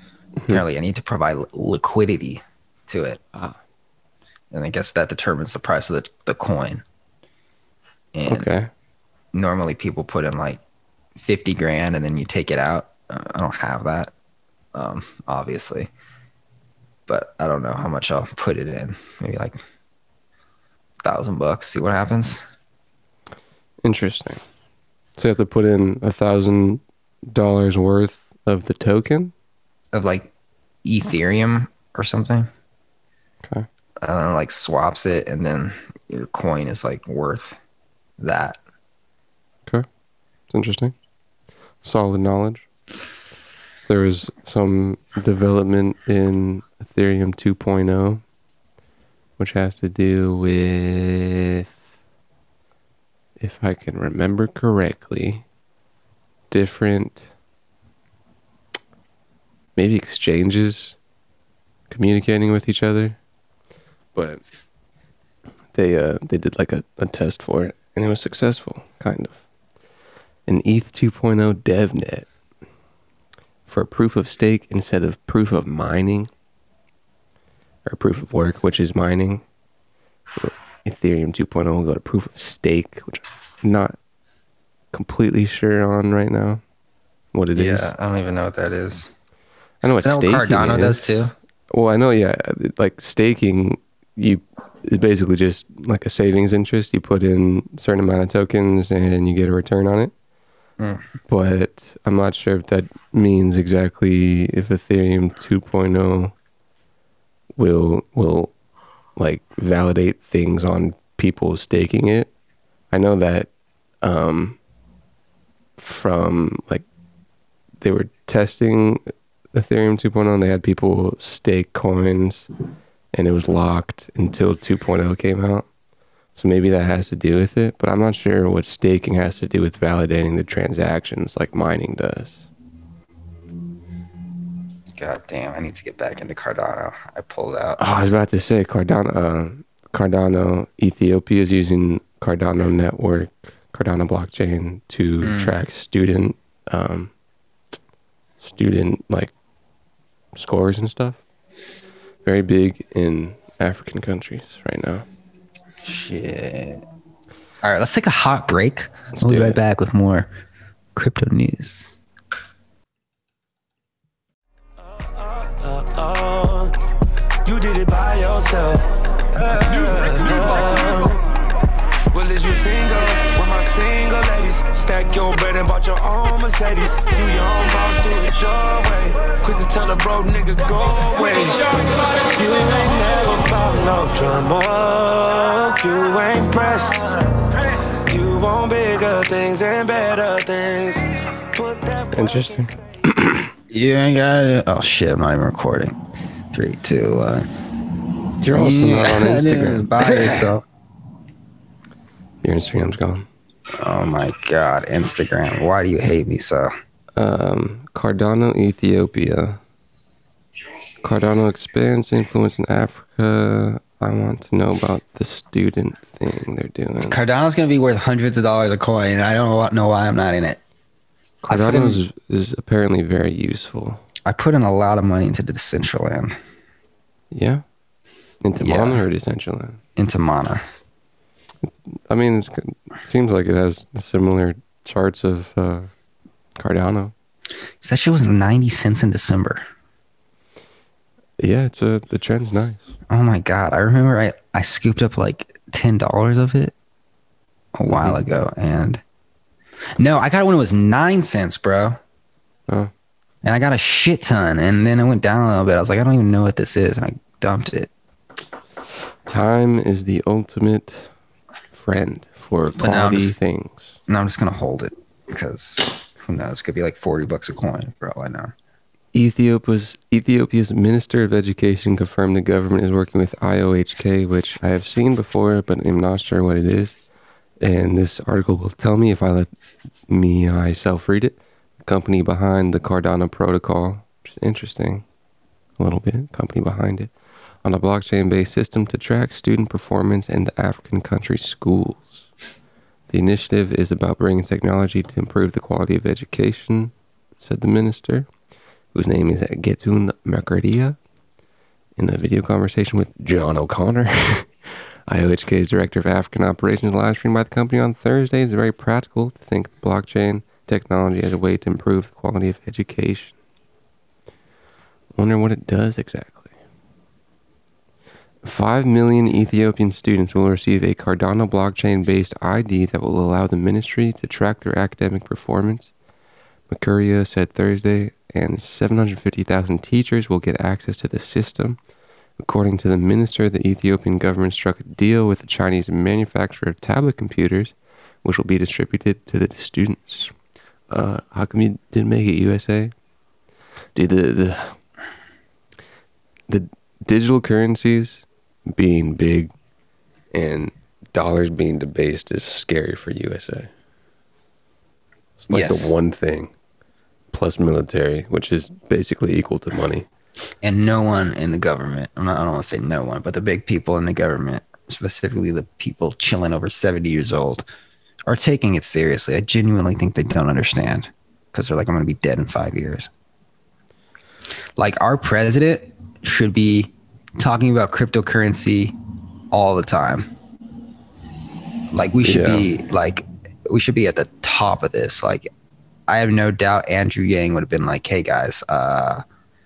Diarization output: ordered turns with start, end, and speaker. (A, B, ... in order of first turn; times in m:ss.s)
0:00.5-0:03.2 A
0:04.5-0:06.8 A
0:08.1-0:08.5 A
0:08.3-0:08.7 B
0:09.3-0:10.6 A
0:11.2-0:14.1 A
0:14.7-0:15.9 A
0:17.1-0:19.6 A
0:21.0-0:22.4 A
0:23.8-0:24.4 B
0:25.2-0:29.3 B
0:29.9-0:30.3 A
0:30.8-0:32.5 A
0:34.0-0:37.6 A
0:38.2-0:38.6 A
0:40.5-0:40.9 B
0:41.8-0:42.6 B
0:43.9-0:48.2 B
0:49.4-0:51.7 B
0:53.4-0:55.4 B
0:56.5-0:57.3 B
0:59.8-1:01.0 B
1:01.9-1:03.2 B
1:04.2-1:04.4 B
1:05.7-1:09.4 B
1:10.5-1:12.3 B
1:13.7-1:16.3 B
1:17.9-1:19.4 B
1:20.4-1:24.0 B
1:24.9-1:26.6 B
1:27.3-1:27.9 B
1:27.6-1:29.1 A
1:29.8-1:40.1 B
1:30.0-1:31.3 A
1:41.3-1:46.3 B
1:47.6-1:48.5 B
1:49.2-1:52.3 B
1:52.9-1:53.5 B
1:54.0-1:54.6 B
1:55.8-1:56.8 B
1:57.8-1:59.0 B
1:59.5-2:02.5 B
2:03.1-2:05.7 B
2:06.4-2:12.4 B
2:15.0-2:17.8 A
2:17.8-2:27.1 B
2:25.2-2:25.6 A
2:28.4-2:29.3 B
2:30.3-2:31.2 B
2:32.2-2:35.0 B
2:35.8-2:36.8 A
2:37.6-2:40.3 A
2:39.1-2:39.6 B
2:41.0-2:41.9 A
2:44.8-2:46.7 C
2:47.4-2:51.3 C
2:52.1-3:12.9 C
3:12.1-3:13.5 B
3:13.7-3:16.0 A
3:16.5-3:17.5 A
3:18.4-3:20.5 B
3:18.5-3:20.6 A
3:22.4-3:23.3 B
3:23.7-3:26.7 A
3:27.2-3:29.6 B
3:31.0-3:37.2 B
3:37.1-3:40.6 A
3:41.4-3:44.0 B
3:41.5-3:42.0 A
3:44.3-3:46.3 A
3:47.3-3:47.6 B
3:48.4-3:49.8 B
3:48.6-3:49.0 A
3:50.0-3:50.6 A
3:51.6-3:55.9 B
3:56.6-3:57.1 B
3:57.8-3:59.6 A
4:01.4-4:02.9 B
4:03.1-4:06.7 A
4:07.8-4:09.0 A
4:07.9-4:08.2 B
4:10.0-4:12.0 A
4:13.4-4:17.9 A
4:19.2-4:21.1 B
4:21.7-4:24.0 B
4:22.8-4:23.4 A
4:24.1-4:28.5 A
4:29.1-4:37.0 B
4:37.6-4:39.5 B
4:40.1-4:45.0 B
4:45.8-4:47.1 B
4:47.6-4:52.3 B
4:53.1-4:58.3 B
4:58.9-5:01.0 B
5:02.0-5:13.4 B
5:15.2-5:16.5 B
5:18.4-5:25.9 B
5:26.7-5:31.8 B
5:32.4-5:40.3 B
5:40.9-5:42.9 B
5:44.0-5:44.8 B
5:46.5-5:49.5 B
5:50.3-5:53.7 B
5:55.4-5:56.5 B
5:55.5-5:55.9 A
5:57.3-6:00.1 B
6:00.6-6:07.6 A
6:08.3-6:13.1 A
6:14.8-6:19.0 A
6:19.5-6:20.3 A
6:21.9-6:25.5 A
6:22.2-6:22.7 B
6:26.1-6:29.2 A